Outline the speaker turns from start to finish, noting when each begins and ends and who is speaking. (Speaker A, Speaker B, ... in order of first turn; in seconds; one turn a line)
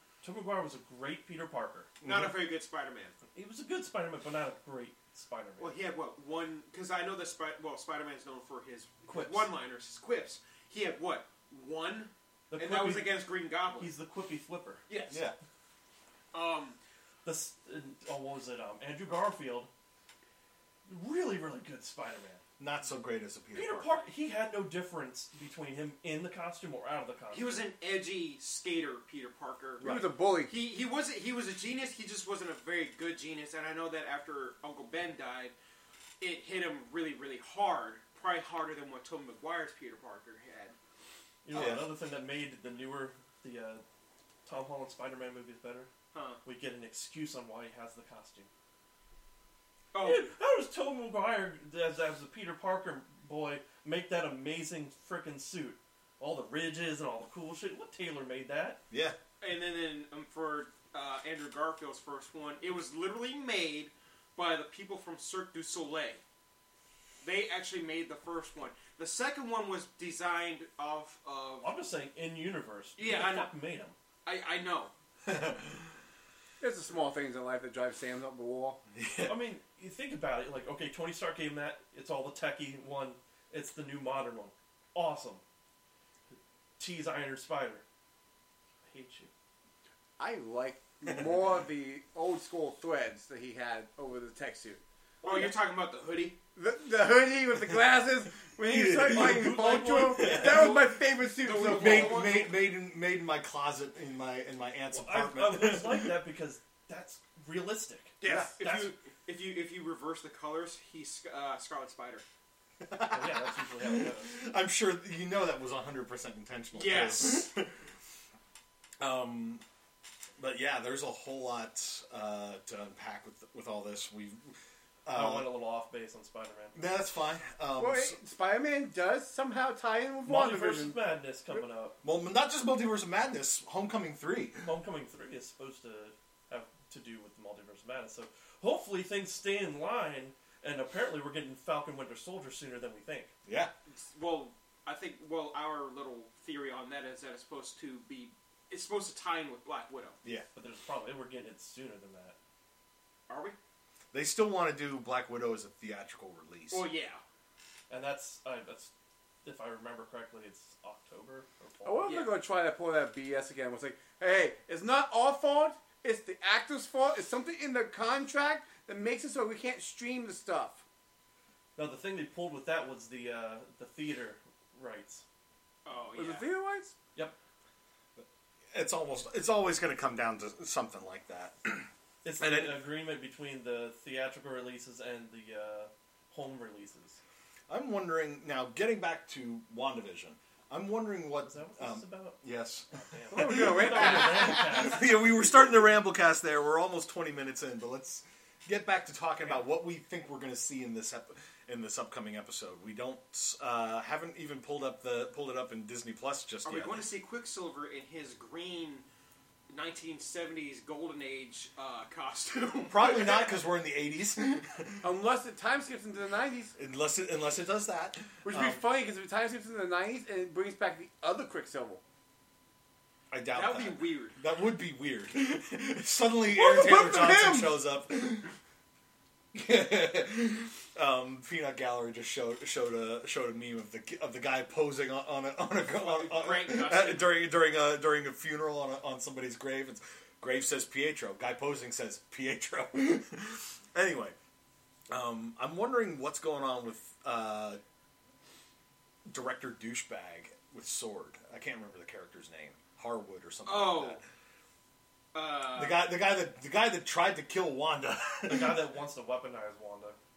Speaker A: 0.2-1.9
Speaker B: 2.0-2.4
Speaker C: 2.0-3.2
Speaker A: 3.4-5.8
Speaker C: 5.6-13.9
Speaker A: 9.1-9.5
Speaker A: 12.5-14.8
Speaker C: 14.9-15.2
Speaker B: 15.1-15.4
Speaker C: 16.3-16.8
Speaker A: 17.2-19.7
Speaker A: 20.9-22.4
Speaker B: 22.6-23.9
Speaker A: 23.5-27.7
Speaker C: 27.3-35.5
Speaker D: 29.8-30.6
Speaker C: 36.2-40.8
Speaker A: 41.5-43.8
Speaker B: 41.5-41.9
Speaker A: 44.5-45.9
Speaker C: 46.1-46.4
Speaker A: 46.4-48.5
Speaker C: 49.9-50.3
Speaker A: 50.0-58.8
Speaker B: 58.9-59.2
Speaker C: 59.4-66.2
Speaker C: 67.2-71.7
Speaker A: 71.6-74.0
Speaker C: 73.0-73.5
Speaker C: 74.2-74.9
Speaker B: 75.3-75.9
Speaker D: 76.6-78.8
Speaker B: 78.9-79.4
Speaker A: 79.3-85.4
Speaker A: 86.8-87.8
Speaker A: 88.9-89.3
Speaker D: 90.2-94.8
Speaker B: 91.1-91.3
Speaker A: 95.2-95.5
Speaker C: 95.2-96.4
Speaker D: 96.6-102.2
Speaker B: 98.7-100.8
Speaker A: 98.8-100.8
Speaker C: 100.5-102.6
Speaker B: 101.6-106.2
Speaker A: 104.9-108.9
Speaker D: 108.2-108.5
Speaker C: 108.2-112.2
Speaker B: 108.2-108.5
Speaker B: 112.8-117.8
Speaker A: 113.1-114.4
Speaker C: 116.7-117.5
Speaker B: 119.0-119.6
Speaker B: 120.4-124.5
Speaker B: 125.0-125.5
Speaker A: 125.1-126.8
Speaker B: 126.8-128.2
Speaker D: 127.8-131.0
Speaker A: 130.2-132.0
Speaker B: 132.0-134.7
Speaker A: 134.6-143.3
Speaker B: 143.5-143.7
Speaker C: 143.9-150.2
Speaker A: 150.6-152.3
Speaker C: 153.3-153.6
Speaker B: 154.1-156.9
Speaker C: 156.7-157.2
Speaker A: 157.9-158.9
Speaker A: 159.4-162.2
Speaker D: 161.8-170.8
Speaker C: 162.1-162.3
Speaker A: 171.8-175.2
Speaker C: 175.8-176.5
Speaker D: 176.1-176.9
Speaker B: 178.2-182.8
Speaker A: 182.2-187.2
Speaker B: 187.7-207.1
Speaker A: 191.4-195.4
Speaker D: 193.3-194.7
Speaker C: 206.6-209.1
Speaker C: 209.7-213.6
Speaker B: 212.9-215.1
Speaker D: 215.0-216.8
Speaker B: 216.8-218.8
Speaker D: 218.4-222.0
Speaker B: 223.3-228.6
Speaker C: 223.5-224.4
Speaker D: 226.5-227.8
Speaker B: 229.5-244.3
Speaker C: 235.9-237.3
Speaker B: 245.1-247.8
Speaker B: 249.3-254.3
Speaker C: 253.7-254.2
Speaker C: 255.3-256.0
Speaker B: 255.7-258.8
Speaker A: 258.5-260.2